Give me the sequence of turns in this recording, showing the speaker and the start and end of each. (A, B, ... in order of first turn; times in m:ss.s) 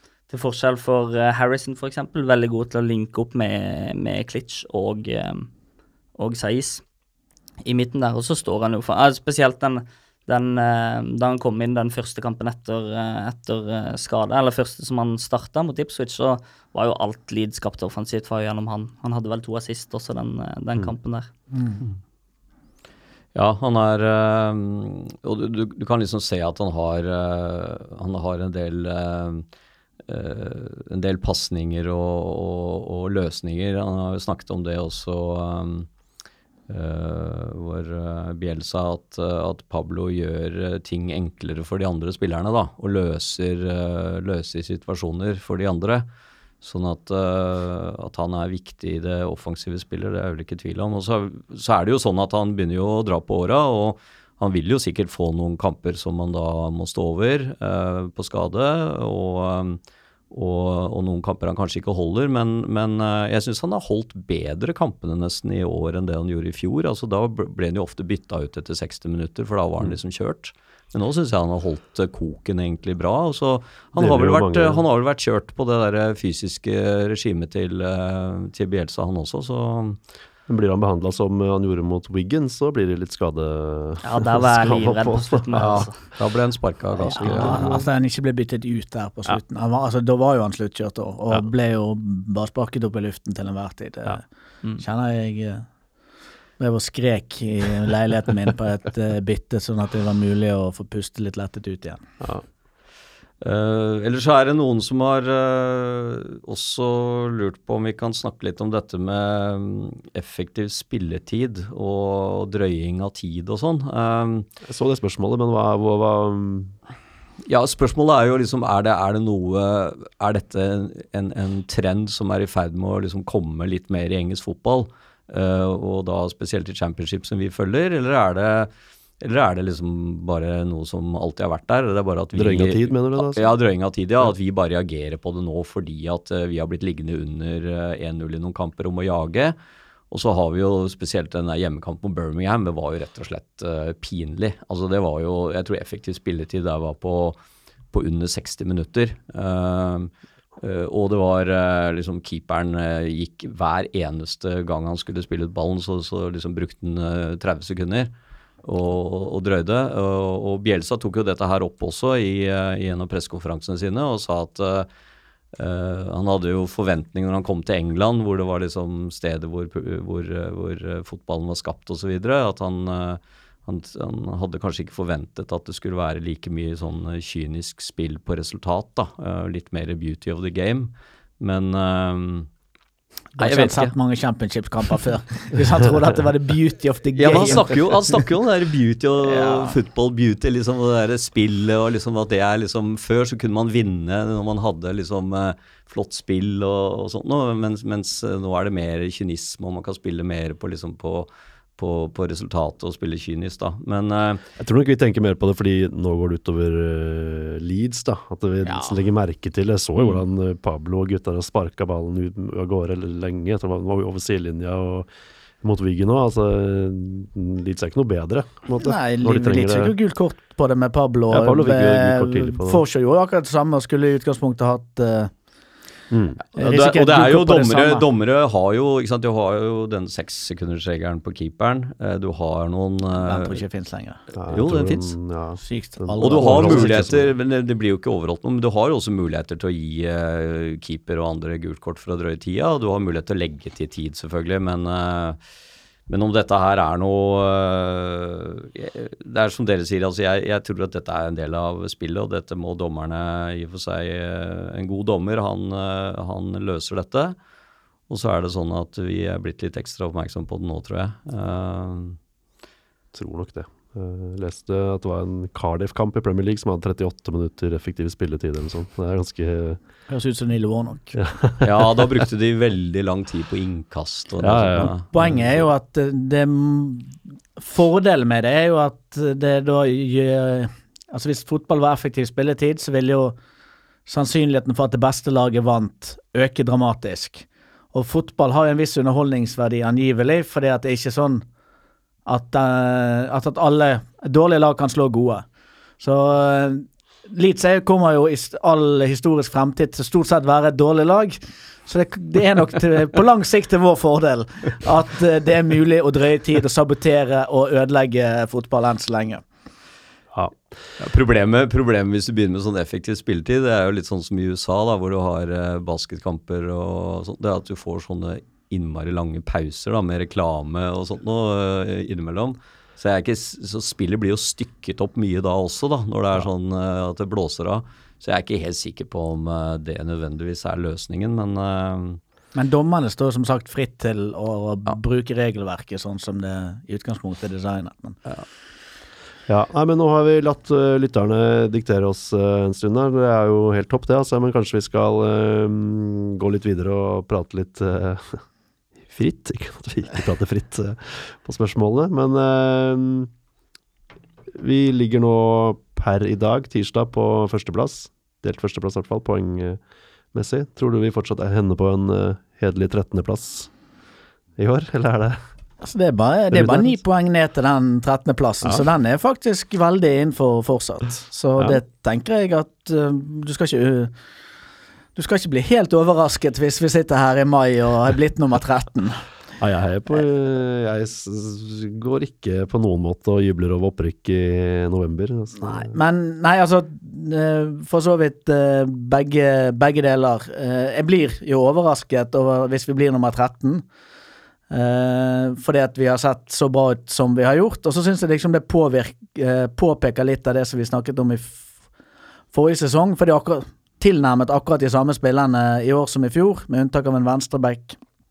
0:00.3-0:05.5 A
0:06.1-0:06.8 A
0:07.6-0:21.3 A
0:21.5-0:21.8 B
0:23.3-0:29.4 C
0:30.1-0:35.9 C
0:36.7-0:46.0 C
0:46.6-1:20.0 C
1:14.0-1:14.8 D
1:20.5-1:25.9 D
1:24.0-1:26.0 A
1:25.5-1:27.7 C
1:27.0-1:34.2 B
1:27.2-1:27.8 D
1:34.8-1:35.7 B
1:36.6-1:42.0 B
1:43.4-1:54.5 C
1:54.6-1:56.8 D
1:57.4-2:19.6 C
2:12.4-2:13.5 D
2:20.1-2:27.4 C
2:27.9-2:38.1 C
2:38.6-2:44.9 C
2:45.5-3:02.5 C
3:03.4-3:03.9 C
3:03.4-3:07.7 B
3:07.2-3:24.4 C
3:09.2-3:09.7 B
3:24.6-3:35.1 D
3:28.6-3:29.0 B
3:35.6-3:39.9 D
3:38.8-3:45.3 B
3:41.3-3:42.8 D
3:46.1-3:46.4 D
3:46.5-3:53.6 C
3:46.6-3:48.0 B
3:53.1-3:54.2 B
3:54.3-3:57.2 D
3:54.5-3:55.1 C
3:55.6-3:57.1 B
3:56.2-4:05.4 C
4:06.1-4:17.4 C
4:18.1-4:22.2 C
4:23.1-4:29.8 D
4:30.1-4:31.2 B
4:31.1-4:31.9 D
4:31.6-4:35.0 C
4:34.4-4:35.6 D
4:35.1-4:43.4 B
4:44.0-4:51.4 B
4:52.2-4:55.4 B
4:56.0-5:09.4 B
5:11.0-5:32.2 C
5:32.5-5:38.2 B
5:39.5-5:48.4 D
5:49.0-5:53.3 D
5:54.5-5:59.8 D
6:00.3-6:03.7 D
6:04.6-6:05.4 D
6:05.8-6:14.1 B
6:06.5-6:07.0 D
6:15.1-6:19.2 B
6:19.6-6:26.0 D
6:25.6-6:33.8 B
6:34.7-6:41.7 B
6:42.5-6:48.0 B